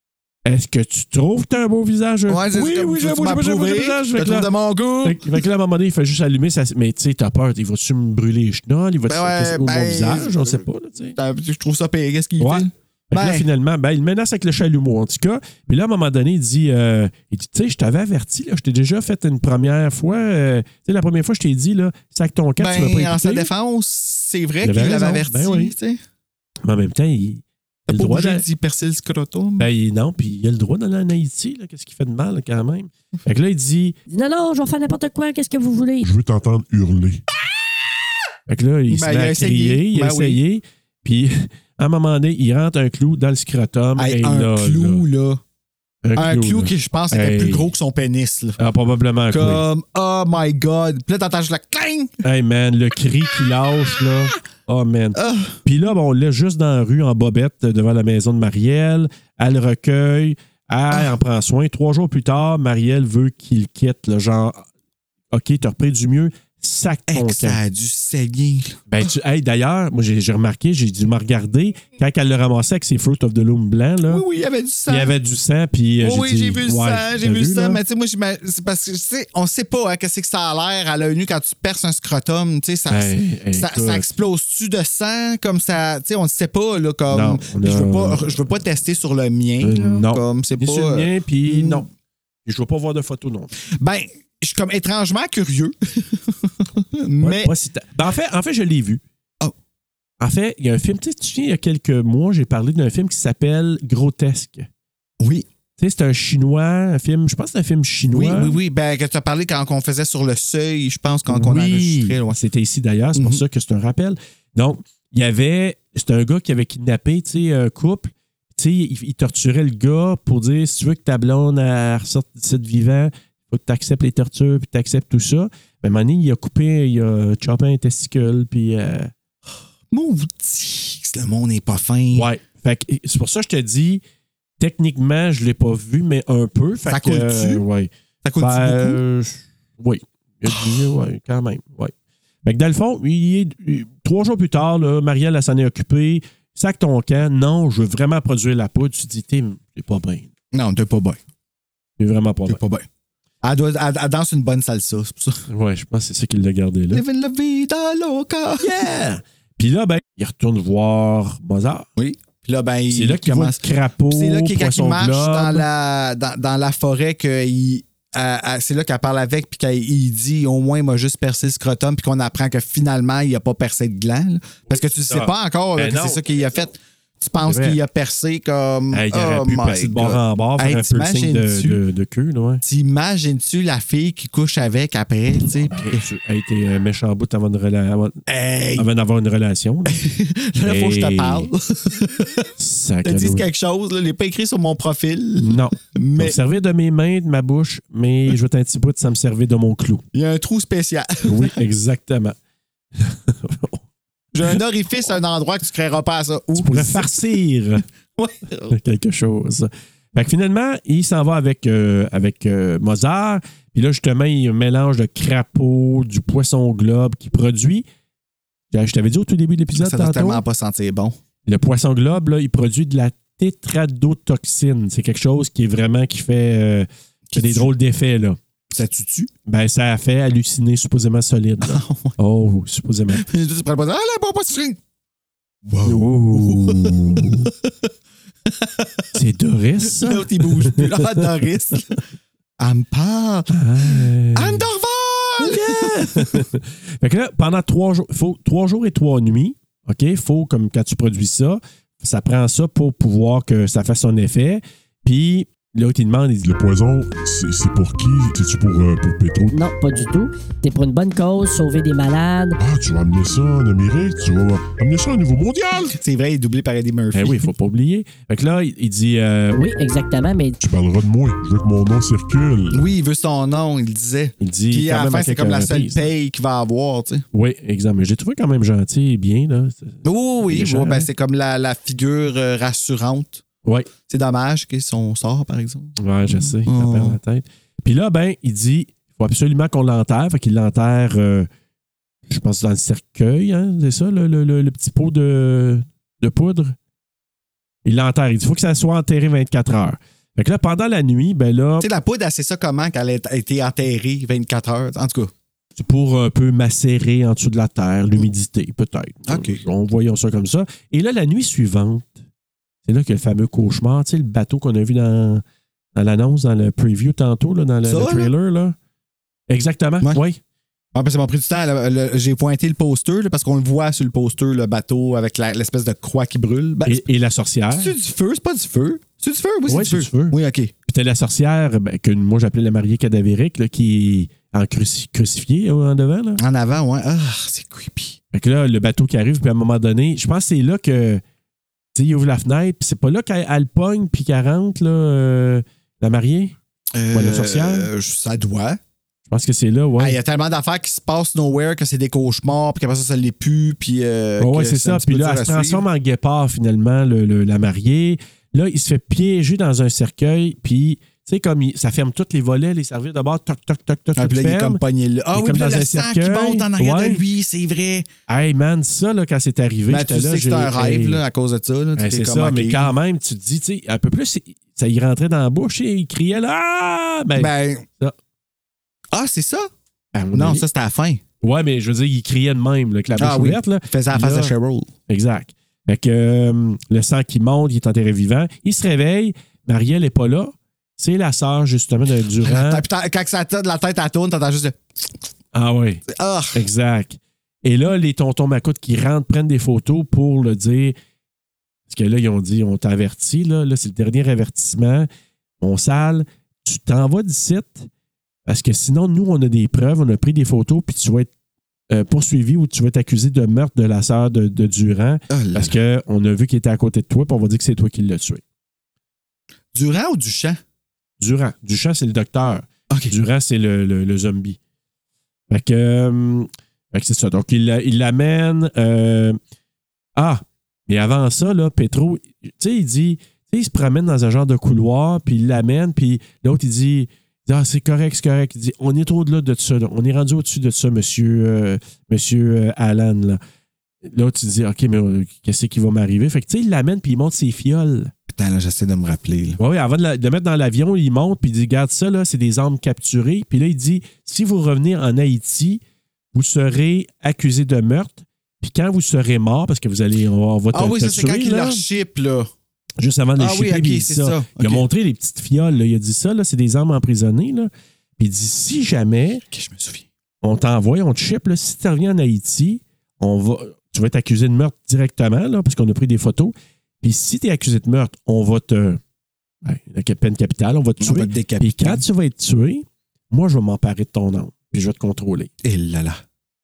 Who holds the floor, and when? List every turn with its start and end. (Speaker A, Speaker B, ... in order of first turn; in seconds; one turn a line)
Speaker A: 0.4-4.5
Speaker B: 2.3-5.3
Speaker A: 5.0-11.2
Speaker B: 9.1-13.5
Speaker A: 12.4-23.5
Speaker B: 22.6-26.0
Speaker A: 24.6-25.7
Speaker A: 26.6-28.4
Speaker B: 27.9-29.7
Speaker A: 29.6-34.0
Speaker C: 34.1-36.1
Speaker D: 36.0-37.2
Speaker A: 38.5-45.0
Speaker B: 38.9-40.4
Speaker B: 44.0-45.4
Speaker A: 46.0-47.7
Speaker B: 46.1-48.6
Speaker A: 48.6-49.6
Speaker B: 49.3-52.2
Speaker A: 52.2-64.6
Speaker B: 55.1-55.6
Speaker A: 65.3-67.6
Speaker B: 67.1-69.1
Speaker A: 68.9-74.2
Speaker B: 74.0-75.1
Speaker A: 74.9-77.8
Speaker B: 76.0-91.8
Speaker A: 82.9-84.0
Speaker A: 87.1-88.5
Speaker A: 89.6-91.9
Speaker A: 92.5-93.5
Speaker B: 93.6-97.5
Speaker A: 97.2-99.0
Speaker A: 100.2-104.7
Speaker B: 105.2-105.5
Speaker A: 105.8-108.6
Speaker B: 108.1-112.4
Speaker A: 111.3-129.1
Speaker B: 113.2-113.4
Speaker B: 129.9-132.3
Speaker A: 132.1-134.0
Speaker A: 134.6-141.9
Speaker B: 136.8-137.6
Speaker B: 138.2-139.0
Speaker B: 140.5-140.7
Speaker A: 142.4-150.3
Speaker B: 150.5-151.2
Speaker A: 152.0-152.6
Speaker B: 152.4-152.8
Speaker B: 153.4-155.4
Speaker A: 155.5-157.0
Speaker B: 156.9-158.7
Speaker A: 158.6-161.9
Speaker B: 162.0-181.8
Speaker A: 162.9-165.7
Speaker A: 174.7-176.2
Speaker A: 177.4-177.8
Speaker A: 178.9-182.6
Speaker B: 182.6-186.0
Speaker A: 185.4-188.2
Speaker B: 188.3-188.9
Speaker A: 188.8-190.0
Speaker B: 189.9-192.5
Speaker A: 190.6-191.5
Speaker A: 192.6-193.4
Speaker B: 193.0-196.4
Speaker A: 195.4-200.0
Speaker B: 200.1-201.6
Speaker A: 201.2-202.3
Speaker A: 203.0-203.8
Speaker B: 204.3-207.1
Speaker A: 206.6-207.8
Speaker B: 208.2-208.7
Speaker A: 208.7-217.8
Speaker A: 218.7-220.4
Speaker B: 219.7-221.2
Speaker A: 221.4-228.4
Speaker B: 227.3-227.7
Speaker B: 228.7-229.3
Speaker A: 229.4-233.2
Speaker B: 231.6-232.1
Speaker B: 233.1-234.8
Speaker B: 235.6-237.9
Speaker A: 235.8-237.5
Speaker B: 238.5-239.0
Speaker A: 239.1-241.3
Speaker B: 239.8-242.0
Speaker B: 242.6-246.4
Speaker A: 243.5-244.7
Speaker A: 245.4-256.5
Speaker D: 256.4-259.6
Speaker C: 259.5-262.6
Speaker D: 262.6-265.9
Speaker B: 265.9-267.5
Speaker A: 267.1-269.6
Speaker C: 269.5-270.5
Speaker D: 270.6-272.9
Speaker B: 272.7-277.2
Speaker A: 274.4-276.1
Speaker A: 277.3-281.1
Speaker B: 280.0-283.4
Speaker B: 284.1-287.2
Speaker A: 286.0-291.5
Speaker A: 292.3-296.7
Speaker A: 297.8-301.9
Speaker B: 301.8-305.3
Speaker A: 305.8-312.2
Speaker B: 309.3-309.6
Speaker A: 312.9-315.4
Speaker A: 315.9-318.8
Speaker B: 317.9-318.3
Speaker A: 319.5-320.4
Speaker B: 320.9-327.0
Speaker A: 326.8-327.9
Speaker B: 327.7-330.7
Speaker A: 329.7-336.4
Speaker B: 336.4-338.2
Speaker A: 338.3-341.2
Speaker A: 341.9-346.5
Speaker B: 346.9-348.8
Speaker A: 347.1-347.9
Speaker A: 349.3-350.2
Speaker B: 350.0-355.8
Speaker A: 354.4-364.8
Speaker B: 364.1-368.1
Speaker A: 365.3-367.2
Speaker A: 368.3-371.2
Speaker B: 369.9-372.9
Speaker A: 371.9-378.1
Speaker B: 377.4-377.9
Speaker B: 379.1-379.7
Speaker A: 380.1-380.6
Speaker B: 380.3-381.2
Speaker A: 381.4-384.5
Speaker B: 383.2-384.9
Speaker A: 385.1-392.8
Speaker B: 392.4-395.1
Speaker A: 395.5-396.0
Speaker B: 396.1-396.6
Speaker A: 396.5-400.9
Speaker A: 401.9-405.1
Speaker A: 405.6-407.9
Speaker A: 408.4-411.3
Speaker A: 411.9-418.4
Speaker B: 415.3-415.7
Speaker B: 419.7-420.6
Speaker A: 421.2-424.6
Speaker A: 425.5-429.4
Speaker A: 430.1-443.4
Speaker A: 444.0-448.1
Speaker B: 448.3-449.6
Speaker A: 449.6-455.8
Speaker A: 456.3-461.8
Speaker B: 460.7-462.5
Speaker A: 463.0-469.4
Speaker B: 463.4-464.8
Speaker B: 469.5-470.1
Speaker A: 470.4-479.0
Speaker A: 479.6-485.5
Speaker B: 481.0-482.0
Speaker B: 485.6-486.2